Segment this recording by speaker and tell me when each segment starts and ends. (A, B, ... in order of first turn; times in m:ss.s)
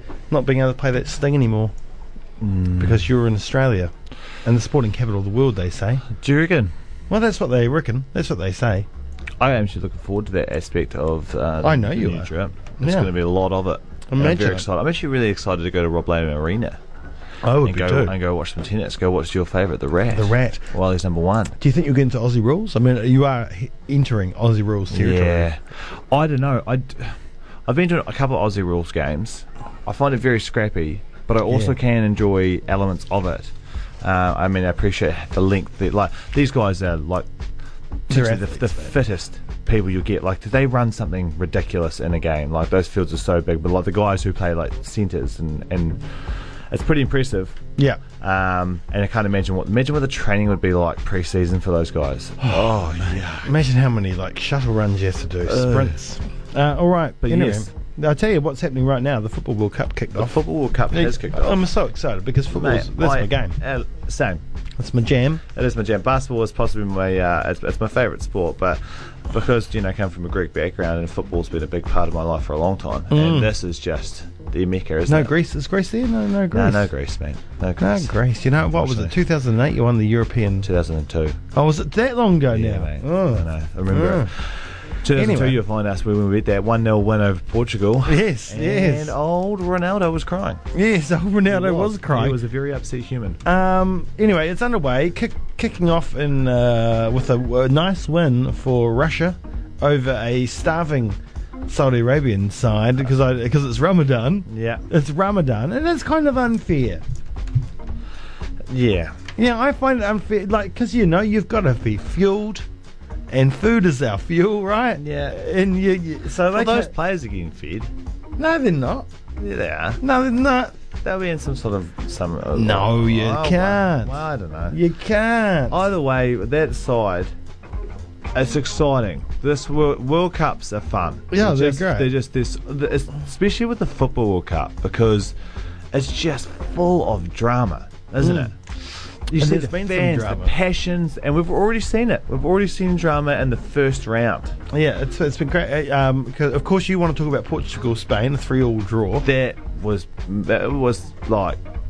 0:00.3-0:01.7 A
0:02.4-0:03.0 B
0:02.8-0:03.9 A
0:04.4-0:06.0 A
0:06.1-0:06.7 B
0:07.1-0:08.9 A
0:09.4-0:16.8 B
0:11.6-0:13.1 A
0:14.1-0:14.6 A
0:17.4-0:18.1 A
0:17.6-0:21.6 B
0:20.1-0:20.7 A
0:21.6-0:25.5 A
0:24.9-0:37.3 B
0:31.5-0:31.8 A
0:38.1-0:47.6 B
0:38.1-0:38.9 A
0:48.2-0:53.5 B
0:52.4-1:00.4 A
0:55.4-0:56.0 B
0:57.2-0:57.7 B
1:00.2-1:01.7 B
1:00.9-1:03.6 A
1:02.5-1:04.4 B
1:04.8-1:05.4 A
1:05.5-1:15.3 B
1:13.1-1:13.5 A
1:15.1-1:16.9 A
1:16.5-1:18.1 B
1:17.8-1:20.7 A
1:18.7-1:19.1 B
1:20.6-1:21.4 B
1:21.5-1:24.3 A
1:22.5-1:30.6 B
1:25.1-1:25.6 A
1:28.0-1:29.1 A
1:30.7-1:32.4 A
1:31.4-1:33.4 B
1:33.4-1:47.0 A
1:44.5-1:44.8 B
1:48.7-1:49.2 B
1:49.4-1:52.6 A
1:53.3-1:56.9 A
1:55.0-1:55.4 B
1:56.5-1:57.9 B
1:58.4-1:59.1 A
1:59.4-2:00.0 B
2:00.0-2:00.7 A
2:01.0-2:04.8 B
2:02.5-2:04.2 A
2:04.7-2:05.8 A
2:05.7-2:07.3 B
2:08.3-2:15.4 B
2:11.3-2:12.1 A
2:15.9-2:24.6 B
2:18.2-2:18.5 A
2:19.4-2:20.5 A
2:24.7-2:29.2 A
2:29.2-2:31.6 B